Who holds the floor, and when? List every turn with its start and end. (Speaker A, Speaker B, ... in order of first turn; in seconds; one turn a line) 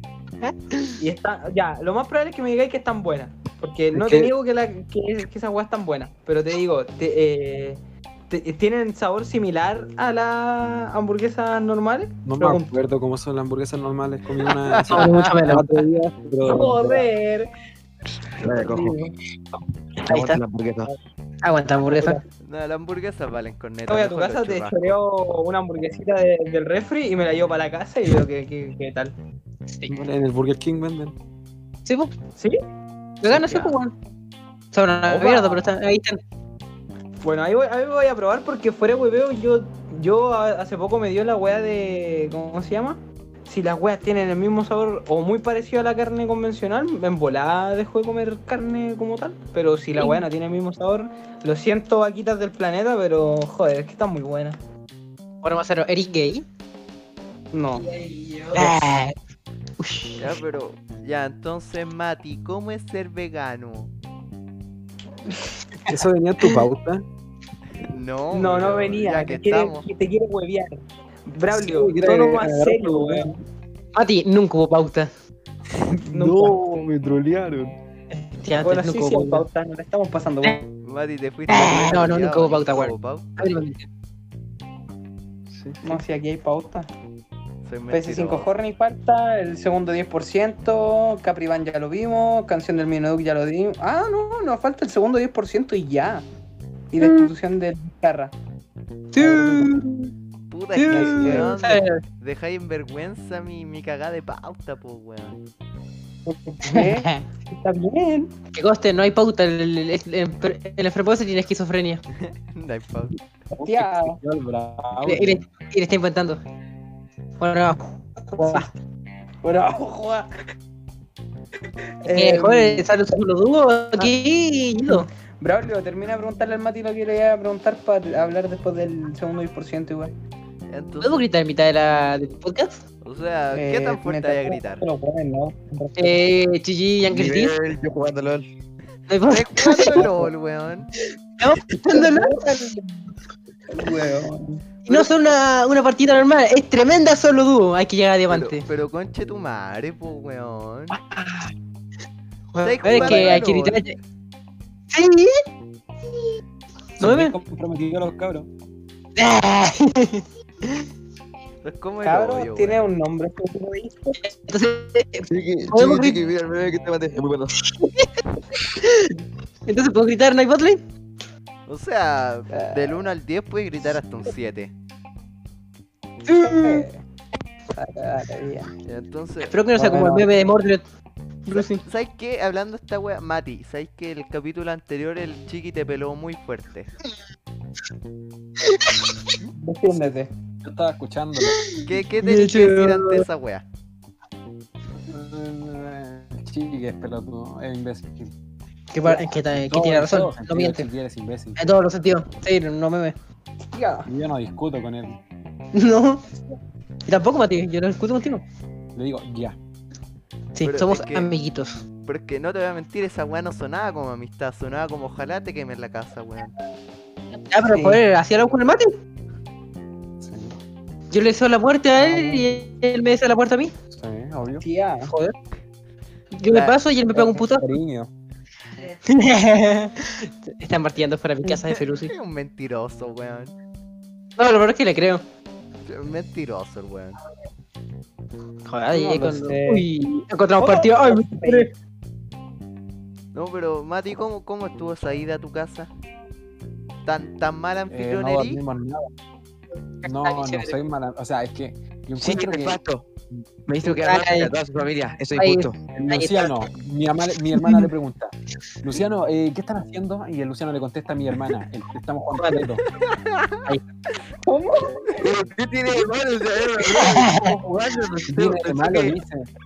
Speaker A: 0.4-1.0
Speaker B: 1.0-12.7
Speaker C: 3.9-4.3
Speaker C: 12.2-17.1
Speaker A: 14.9-15.8
Speaker B: 16.4-17.5
Speaker D: 18.4-19.0
Speaker B: 18.4-19.1
Speaker D: 20.0-20.9
Speaker A: 20.1-20.4
Speaker A: 21.4-22.2
Speaker B: 21.9-22.2
Speaker E: 22.4-24.9
Speaker B: 23.9-29.1
Speaker C: 29.9-31.1
Speaker A: 31.9-32.1
Speaker A: 33.2-33.9
Speaker B: 33.3-33.8
Speaker A: 34.7-36.2
Speaker B: 35.1-35.7
Speaker B: 37.2-54.6
Speaker A: 50.0-50.2
Speaker A: 55.4-56.5
Speaker B: 57.5-57.9
Speaker A: 58.5-59.1
Speaker A: 59.8-60.3
Speaker E: 60.2-63.9
Speaker C: 65.9-67.0
Speaker E: 67.8-69.9
Speaker B: 68.3-73.3
Speaker C: 71.5-73.4
Speaker A: 73.9-75.1
Speaker C: 76.1-77.8
Speaker B: 76.1-76.6
Speaker A: 78.1-79.5
Speaker B: 78.6-80.7
Speaker E: 80.8-83.5
Speaker A: 81.5-83.9
Speaker C: 85.5-86.0
Speaker B: 85.8-86.9
Speaker E: 87.7-88.5
Speaker B: 87.9-96.2
Speaker B: 96.9-98.3
Speaker A: 97.0-97.3
Speaker A: 99.1-100.1
Speaker C: 99.2-99.8
Speaker B: 99.3-99.7
Speaker E: 100.5-105.4
Speaker A: 100.8-102.0
Speaker B: 100.8-101.5
Speaker C: 100.9-101.5
Speaker B: 106.3-108.3
Speaker A: 106.6-107.2
Speaker A: 108.5-112.0
Speaker E: 112.2-113.2
Speaker B: 113.5-114.2
Speaker C: 113.6-115.4
Speaker A: 115.0-116.4
Speaker A: 117.4-118.7
Speaker B: 118.3-118.7
Speaker B: 119.4-120.3
Speaker B: 122.0-122.9
Speaker A: 122.1-125.1
Speaker B: 124.9-130.1
Speaker E: 130.7-131.2
Speaker A: 131.0-132.8
Speaker E: 133.0-134.8
Speaker B: 133.5-136.2
Speaker A: 136.0-137.6
Speaker D: 137.1-138.5
Speaker A: 139.1-140.1
Speaker E: 139.2-140.9
Speaker B: 139.7-140.1
Speaker A: 141.4-142.7
Speaker B: 141.9-142.9
Speaker B: 143.7-145.1
Speaker A: 144.8-148.7
Speaker E: 148.3-151.0
Speaker A: 152.6-153.9
Speaker E: 152.6-154.0
Speaker B: 152.8-153.4
Speaker A: 154.9-155.4
Speaker A: 157.0-157.3
Speaker C: 157.0-158.5
Speaker A: 159.2-160.9
Speaker E: 161.6-162.8
Speaker B: 162.0-164.3
Speaker A: 164.2-166.2
Speaker D: 165.3-167.6
Speaker A: 167.7-169.1
Speaker A: 169.7-170.8
Speaker E: 171.7-174.7
Speaker B: 172.5-172.9
Speaker A: 176.3-176.9
Speaker B: 176.3-177.0
Speaker B: 177.7-178.7
Speaker E: 178.9-179.6
Speaker A: 179.5-180.8
Speaker C: 179.8-180.3
Speaker A: 181.5-181.8
Speaker E: 181.6-186.9
Speaker A: 188.6-189.1
Speaker B: 189.5-190.3
Speaker C: 190.6-191.6
Speaker A: 191.5-193.2
Speaker E: 191.9-193.7
Speaker C: 195.1-198.3
Speaker A: 198.9-200.9
Speaker C: 199.0-201.6
Speaker A: 201.6-203.2
Speaker B: 203.7-204.1
Speaker C: 204.1-205.2
Speaker A: 205.7-206.2
Speaker A: 207.1-208.4
Speaker C: 208.9-209.6
Speaker A: 210.6-211.8
Speaker E: 210.6-211.3
Speaker E: 212.1-216.5
Speaker A: 217.5-218.9
Speaker B: 217.6-218.0
Speaker C: 220.2-220.6
Speaker A: 221.1-223.7
Speaker C: 222.0-222.6
Speaker C: 223.9-224.7
Speaker B: 224.6-225.1
Speaker A: 225.1-225.3
Speaker A: 226.4-227.7
Speaker E: 226.5-226.8
Speaker C: 227.1-228.1
Speaker A: 229.1-232.1
Speaker E: 232.0-233.5
Speaker A: 234.4-235.2
Speaker E: 235.8-237.2
Speaker A: 238.7-241.7
Speaker B: 238.9-239.9
Speaker B: 240.6-241.7
Speaker E: 243.3-245.9
Speaker E: 247.1-248.6
Speaker C: 247.9-249.1
Speaker A: 250.0-250.8
Speaker C: 250.0-252.8
Speaker D: 252.2-253.1
Speaker D: 253.7-255.8
Speaker A: 253.8-254.5
Speaker A: 255.4-256.5
Speaker C: 255.9-262.8
Speaker A: 257.6-257.9
Speaker A: 262.4-262.7
Speaker E: 263.0-263.6
Speaker B: 264.5-265.3
Speaker D: 265.2-269.2
Speaker A: 266.9-267.6
Speaker C: 268.3-269.5